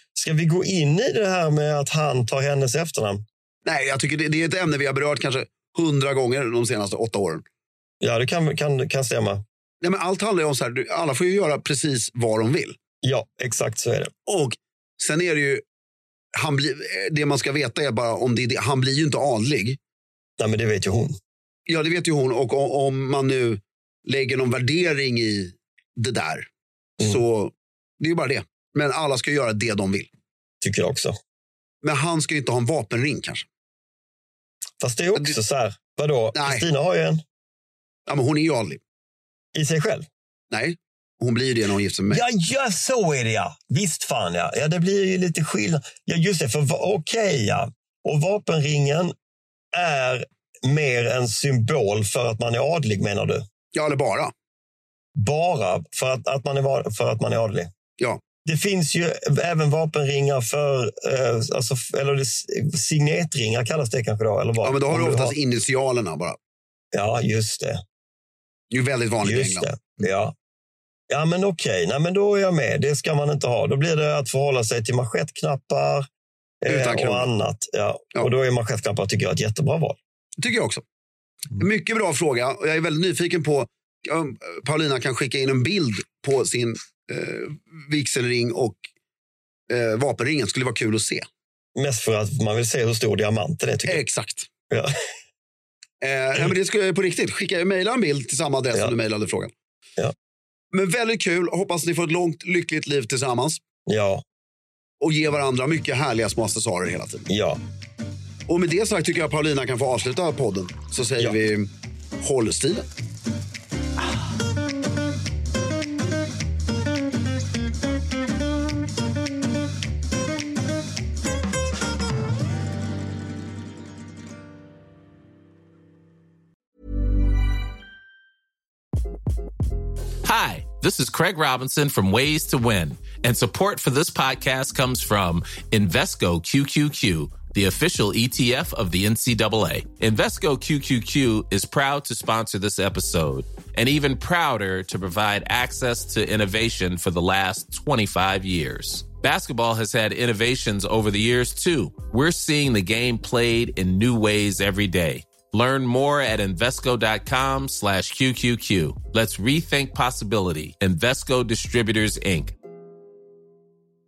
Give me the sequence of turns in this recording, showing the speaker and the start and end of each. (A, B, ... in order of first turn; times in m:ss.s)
0:00.1-0:03.2 A
0:03.6-0:07.4 B
0:08.0-0:09.4 A
0:09.8-0:12.8 B
0:13.0-0:14.1 A
0:14.2-0:15.6 B
0:16.3-0:19.8 B
0:20.4-0:21.2 A
0:21.7-0:26.5 B
0:27.0-0:30.1 B
0:30.6-0:31.2 A
0:31.8-0:33.5 B
0:34.8-0:37.2 A
0:36.3-0:36.6 B
0:38.1-0:38.8 B
0:39.5-0:40.1 A
0:40.5-0:42.2 B
0:42.1-0:49.1 A
0:49.7-0:53.4 A
0:53.7-0:54.3 B
0:55.2-0:57.7 A
0:58.4-1:05.3 A
1:04.6-1:06.4 B
1:06.9-1:07.8 A
1:08.7-1:09.7 B
1:09.2-1:10.3 A
1:11.1-1:16.1 A
1:16.6-1:20.0 A
1:16.6-1:17.3 B
1:20.4-1:20.8 B
1:21.6-1:28.8 B
1:29.7-1:31.3 B
1:31.8-1:34.0 A
1:33.9-1:34.5 B
1:36.0-1:39.5 B
1:40.7-1:43.6 B
1:43.9-1:44.2 A
1:45.0-1:47.3 B
1:47.3-1:47.6 A
1:48.5-1:52.8 B
2:10.2-2:42.5 C